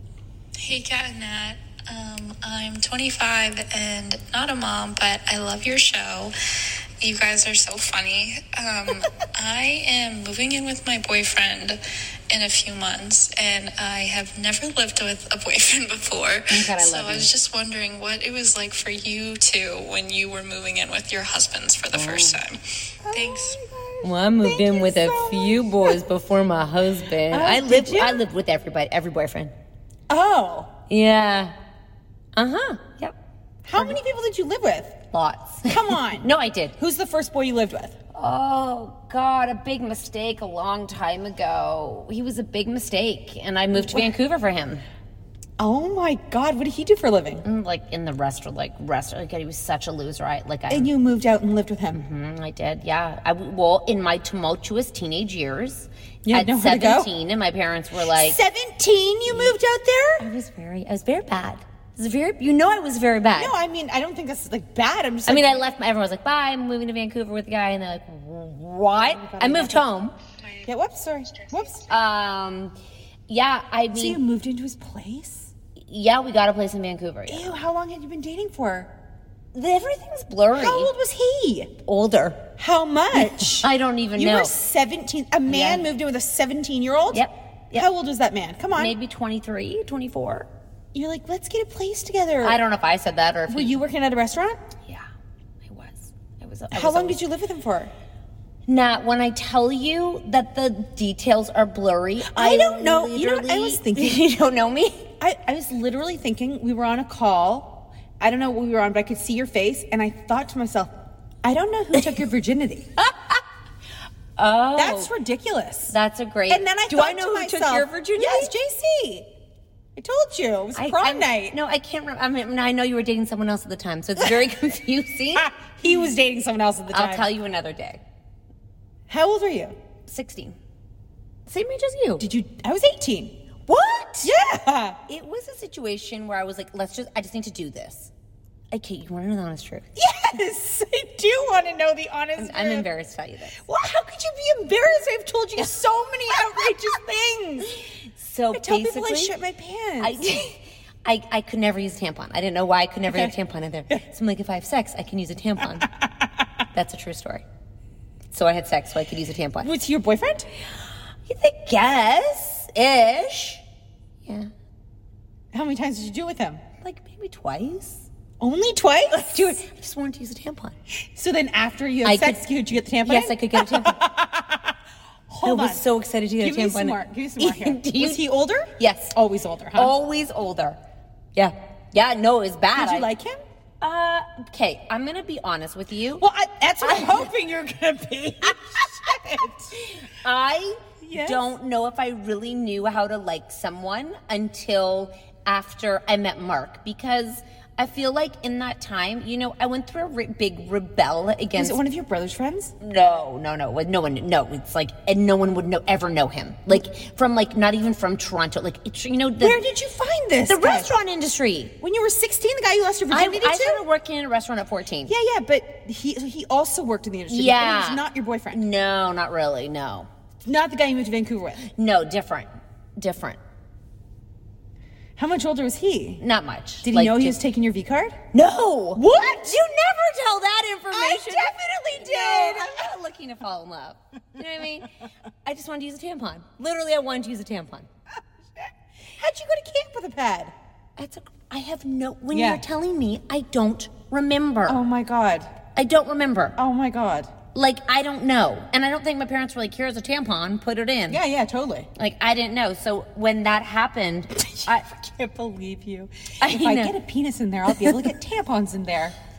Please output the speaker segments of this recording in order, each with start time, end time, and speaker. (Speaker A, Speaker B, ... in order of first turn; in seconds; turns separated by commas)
Speaker A: 0.6-6.3, Speaker A: 7.0-11.8, Speaker A: 12.3-23.6, Speaker B: 16.5-17.3, Speaker B: 21.9-22.4, Speaker C: 23.0-26.0, Speaker B: 24.0-29.5, Speaker C: 27.3-28.2, Speaker C: 30.1-30.7, Speaker B: 30.9-31.6, Speaker B: 32.4-33.1, Speaker C: 33.6-35.1, Speaker B: 35.1-36.8, Speaker C: 35.6-38.0, Speaker B: 38.1-44.8, Speaker C: 43.7-44.1, Speaker C: 45.6-47.5, Speaker B: 47.4-50.9, Speaker C: 50.7-52.0, Speaker B: 51.9-58.4, Speaker C: 56.3-57.1, Speaker C: 58.0-60.2, Speaker B: 60.2-63.5, Speaker C: 63.4-65.6, Speaker B: 65.3-70.1, Speaker C: 69.0-69.9, Speaker C: 70.6-71.8, Speaker B: 71.9-72.8, Speaker B: 73.3-74.2, Speaker C: 73.9-75.5, Speaker B: 75.9-77.6, Speaker C: 77.3-78.9, Speaker B: 79.5-80.9, Speaker C: 80.5-81.7, Speaker B: 81.8-82.5, Speaker C: 82.6-89.0, Speaker B: 83.2-84.5, Speaker B: 85.5-85.8, Speaker B: 87.1-87.9, Speaker B: 88.8-90.5, Speaker C: 90.9-92.6, Speaker B: 92.4-93.8, Speaker C: 93.5-94.6, Speaker B: 95.7-97.2, Speaker C: 96.7-97.9, Speaker B: 98.7-105.1, Speaker C: 102.3-104.2, Speaker C: 105.2-112.9, Speaker B: 113.0-113.4, Speaker B: 114.4-115.1, Speaker C: 114.8-115.9, Speaker B: 115.9-118.5, Speaker C: 116.5-119.3, Speaker C: 120.0-121.6, Speaker B: 120.8-125.5, Speaker C: 125.4-127.3, Speaker B: 126.9-128.0, Speaker C: 129.1-129.8, Speaker B: 130.1-130.6, Speaker B: 131.5-132.3, Speaker C: 132.2-133.4, Speaker B: 133.7-134.3, Speaker C: 134.2-135.0, Speaker B: 135.1-138.1, Speaker B: 138.7-139.9, Speaker C: 140.0-142.9, Speaker B: 142.4-143.6, Speaker C: 143.6-147.7, Speaker B: 148.2-149.3, Speaker C: 148.5-150.2, Speaker B: 150.0-155.9, Speaker C: 153.1-153.3, Speaker B: 156.7-157.4, Speaker B: 158.3-159.7, Speaker C: 159.6-160.5, Speaker B: 161.3-163.6, Speaker B: 164.2-164.5, Speaker C: 165.5-166.6, Speaker B: 166.8-168.1, Speaker C: 168.4-169.6, Speaker B: 169.3-170.8, Speaker C: 171.2-174.7, Speaker B: 172.0-172.4, Speaker B: 173.0-174.0, Speaker C: 175.3-175.8, Speaker B: 175.4-178.3, Speaker C: 176.4-179.9, Speaker B: 178.8-179.2, Speaker B: 179.8-180.8, Speaker B: 181.3-183.1, Speaker C: 182.8-183.4, Speaker B: 183.8-186.2, Speaker C: 186.2-189.7, Speaker B: 186.8-187.3, Speaker B: 190.2-201.8, Speaker C: 191.0-191.4, Speaker C: 201.6-202.7, Speaker B: 202.8-209.6, Speaker C: 209.4-210.9, Speaker B: 210.5-211.8, Speaker C: 211.8-213.8, Speaker B: 213.1-215.1, Speaker C: 215.1-218.6, Speaker B: 217.3-220.1, Speaker C: 220.4-221.7, Speaker B: 221.8-223.4, Speaker C: 225.2-226.2, Speaker B: 226.2-227.4, Speaker C: 226.8-228.2, Speaker B: 228.3-234.9, Speaker C: 229.0-229.4, Speaker C: 230.9-232.8, Speaker B: 235.4-237.9, Speaker C: 239.2-240.5, Speaker B: 241.0-244.8, Speaker C: 242.3-242.6, Speaker C: 244.7-245.5, Speaker B: 245.8-246.6, Speaker C: 246.6-247.3, Speaker B: 247.5-251.2, Speaker C: 251.1-251.9, Speaker B: 252.0-254.8, Speaker C: 254.6-259.1, Speaker B: 256.4-256.9